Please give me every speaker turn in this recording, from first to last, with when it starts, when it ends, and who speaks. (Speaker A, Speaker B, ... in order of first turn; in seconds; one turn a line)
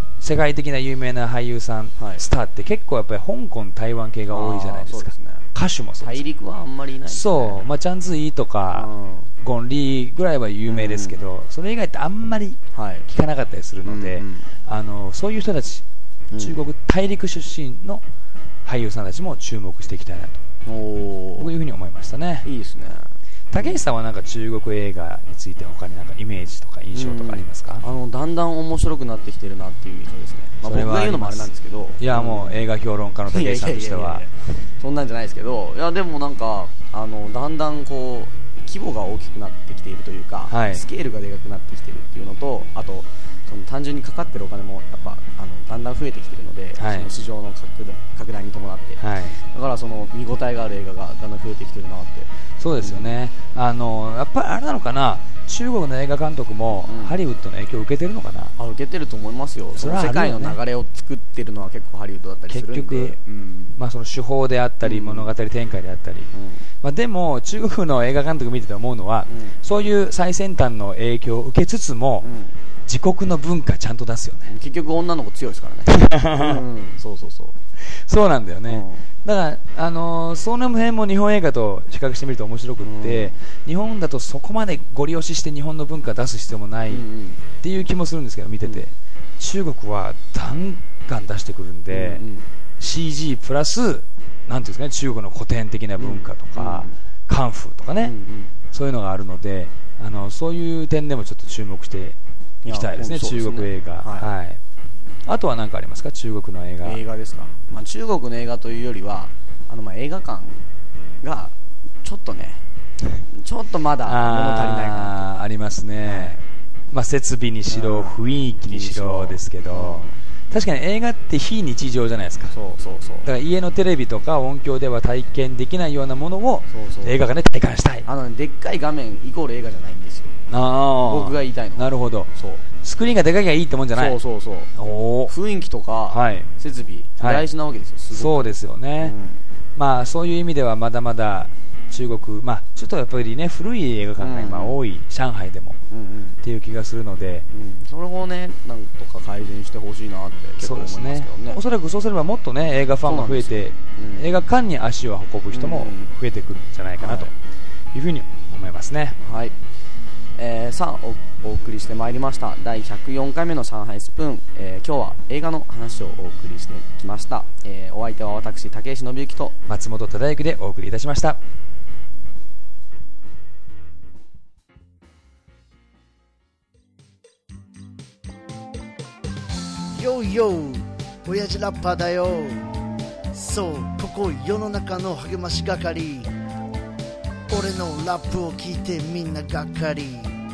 Speaker A: 0.2-6.2
Speaker B: 2.0-2.2
Speaker B: 4.3-5.5
Speaker B: 6.0-7.7
Speaker A: 7.1-8.9
Speaker B: 8.7-9.3
Speaker A: 9.4-15.8
Speaker B: 10.7-11.2
Speaker B: 12.7-13.1
Speaker B: 13.8-14.5
Speaker B: 16.3-16.6
Speaker A: 16.4-18.0
Speaker A: 18.6-20.4
Speaker B: 20.6-21.5
Speaker A: 21.4-22.5
Speaker B: 22.4-23.8
Speaker A: 23.5-27.8
Speaker B: 26.9-32.7
Speaker A: 30.6-34.2
Speaker B: 33.3-52.3
Speaker A: 40.5-40.8
Speaker A: 46.8-47.1
Speaker A: 49.0-49.4
Speaker A: 52.6-58.5
Speaker B: 52.8-53.2
Speaker B: 56.9-57.2
Speaker B: 58.6-63.8
Speaker A: 59.8-60.6
Speaker A: 62.5-63.2
Speaker A: 63.8-66.3
Speaker B: 64.8-65.3
Speaker B: 66.3-66.7
Speaker A: 66.8-72.3
Speaker B: 69.3-69.6
Speaker B: 72.2-72.6
Speaker A: 72.9-74.5
Speaker B: 74.5-77.5
Speaker A: 75.9-76.6
Speaker A: 77.8-87.0
Speaker B: 78.7-79.1
Speaker B: 82.8-83.4
Speaker B: 86.9-87.4
Speaker A: 87.6-92.2
Speaker B: 91.9-92.5
Speaker A: 92.8-98.2
Speaker B: 96.0-97.0
Speaker B: 98.0-98.6
Speaker A: 98.7-104.6
Speaker B: 102.7-104.3
Speaker A: 105.3-107.0
Speaker B: 106.8-110.7
Speaker B: 111.2-112.6
Speaker B: 113.3-115.4
Speaker A: 114.0-116.4
Speaker B: 116.0-116.5
Speaker A: 116.9-122.5
Speaker B: 117.7-120.2
Speaker B: 122.5-123.3
Speaker A: 123.2-128.1
Speaker B: 126.7-127.2
Speaker B: 128.1-130.4
Speaker A: 130.5-132.3
Speaker B: 131.0-132.6
Speaker A: 132.8-134.2
Speaker B: 133.9-134.7
Speaker A: 134.8-135.3
Speaker B: 135.3-139.4
Speaker A: 136.1-136.5
Speaker A: 137.2-137.4
Speaker A: 138.1-139.2
Speaker A: 139.8-145.8
Speaker B: 144.2-144.8
Speaker B: 145.9-146.4
Speaker A: 146.4-147.4
Speaker B: 147.5-151.6
Speaker A: 150.6-157.3
Speaker B: 153.0-154.3
Speaker B: 155.5-156.1
Speaker B: 157.0-157.3
Speaker A: 157.9-159.2
Speaker B: 159.2-159.6
Speaker B: 160.4-169.6
Speaker A: 169.7-171.4
Speaker C: 179.9-182.8
Speaker C: 183.3-186.3
Speaker C: 187.5-190.4